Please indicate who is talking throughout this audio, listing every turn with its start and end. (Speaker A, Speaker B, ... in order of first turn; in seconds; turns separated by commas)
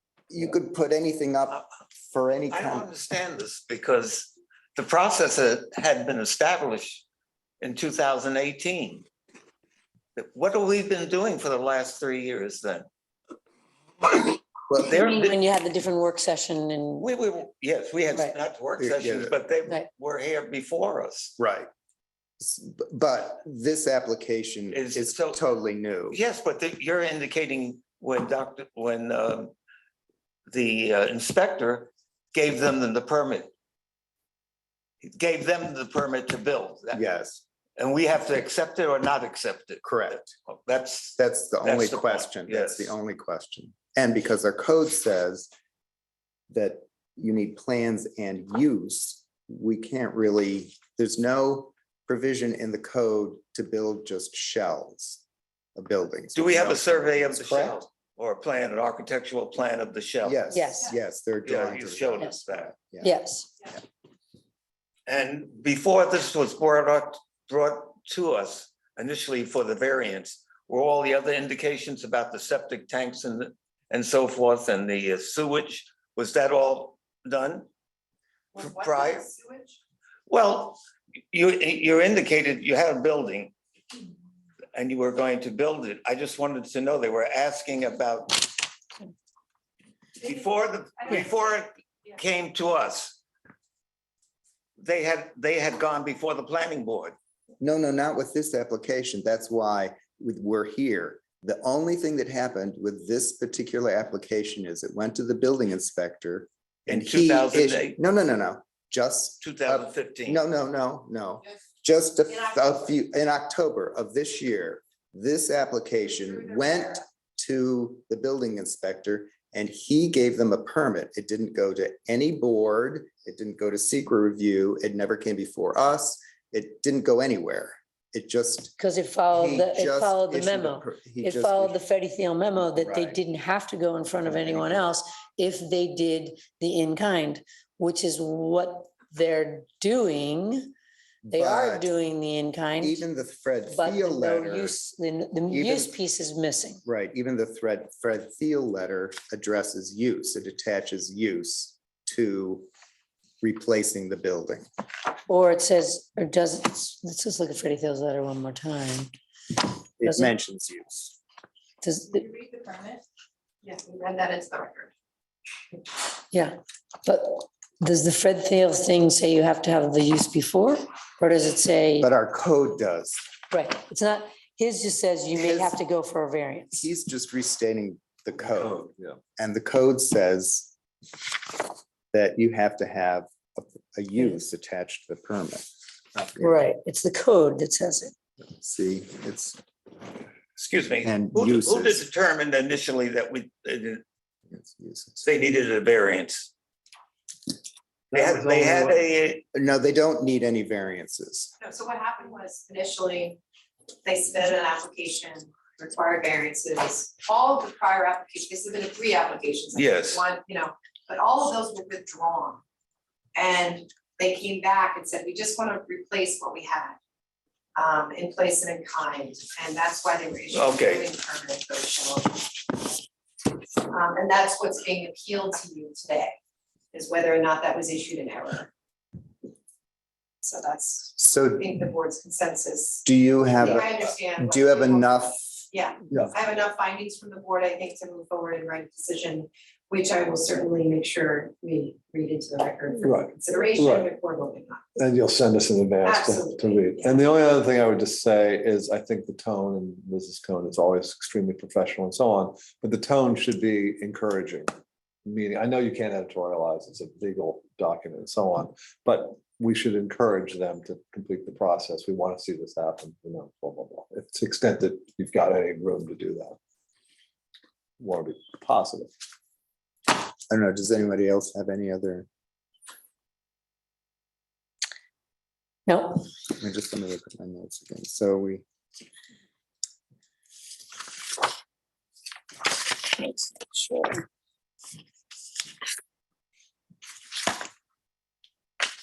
Speaker A: 0.3-2.9, Speaker B: 2.5-7.0, Speaker B: 7.6-9.0, Speaker B: 10.2-12.8, Speaker B: 14.8-15.3, Speaker C: 14.8-17.1, Speaker B: 17.0-21.3, Speaker A: 18.8-19.4, Speaker A: 21.4-21.7, Speaker A: 22.4-26.2, Speaker B: 24.7-25.4, Speaker B: 26.1-29.5, Speaker B: 30.5-33.5, Speaker B: 35.0-37.0, Speaker A: 36.9-37.4, Speaker B: 37.8-43.0, Speaker A: 39.8-40.3, Speaker A: 41.2-45.5, Speaker A: 46.5-55.2, Speaker A: 55.8-57.8, Speaker B: 56.3-60.4, Speaker A: 60.2-63.2, Speaker C: 60.5-60.9, Speaker B: 61.4-62.7, Speaker C: 63.0-63.5, Speaker B: 65.1-77.7, Speaker D: 78.5-79.8, Speaker B: 78.6-79.2, Speaker B: 80.3-80.8, Speaker B: 81.3-83.5, Speaker B: 84.7-88.5, Speaker B: 90.2-93.2, Speaker D: 91.0-91.4, Speaker B: 94.8-97.2, Speaker A: 97.6-128.8, Speaker B: 106.9-108.0, Speaker B: 109.4-110.4, Speaker D: 112.3-112.8, Speaker D: 116.0-117.0, Speaker C: 128.8-140.7, Speaker A: 129.3-131.8, Speaker A: 132.6-133.2, Speaker A: 134.2-134.9, Speaker A: 141.2-141.9, Speaker C: 141.3-143.0, Speaker A: 142.8-144.8, Speaker C: 143.7-146.8, Speaker A: 145.5-145.9, Speaker A: 146.8-152.7, Speaker A: 153.4-154.7, Speaker C: 155.3-159.1, Speaker A: 160.0-161.2, Speaker C: 160.0-160.3, Speaker C: 161.8-162.2, Speaker D: 162.1-163.0, Speaker D: 163.6-164.9, Speaker C: 166.3-172.1, Speaker A: 172.0-173.2, Speaker C: 173.5-176.9, Speaker A: 175.3-175.8, Speaker A: 176.7-178.8, Speaker E: 178.4-179.2, Speaker A: 179.4-180.7, Speaker A: 182.1-186.7, Speaker C: 184.2-184.4, Speaker C: 186.4-188.1, Speaker A: 188.5-189.6, Speaker B: 190.6-194.0, Speaker A: 191.0-192.0, Speaker A: 194.5-195.3, Speaker B: 195.2-196.5, Speaker B: 198.1-199.4, Speaker E: 198.1-199.0, Speaker A: 199.5-201.5, Speaker D: 201.6-203.4, Speaker D: 204.0-212.6, Speaker B: 209.7-210.2, Speaker D: 213.3-217.0, Speaker D: 217.7-222.9, Speaker B: 220.5-221.1, Speaker D: 223.7-226.3, Speaker D: 226.9-228.7, Speaker D: 230.4-233.1, Speaker A: 231.2-231.7, Speaker A: 233.0-235.6, Speaker D: 233.6-244.8, Speaker E: 243.0-244.1, Speaker E: 244.9-254.7, Speaker D: 246.0-247.2, Speaker E: 255.2-266.6, Speaker E: 268.0-269.1, Speaker A: 270.5-272.3, Speaker C: 275.9-276.2, Speaker A: 276.6-278.6, Speaker B: 283.6-284.1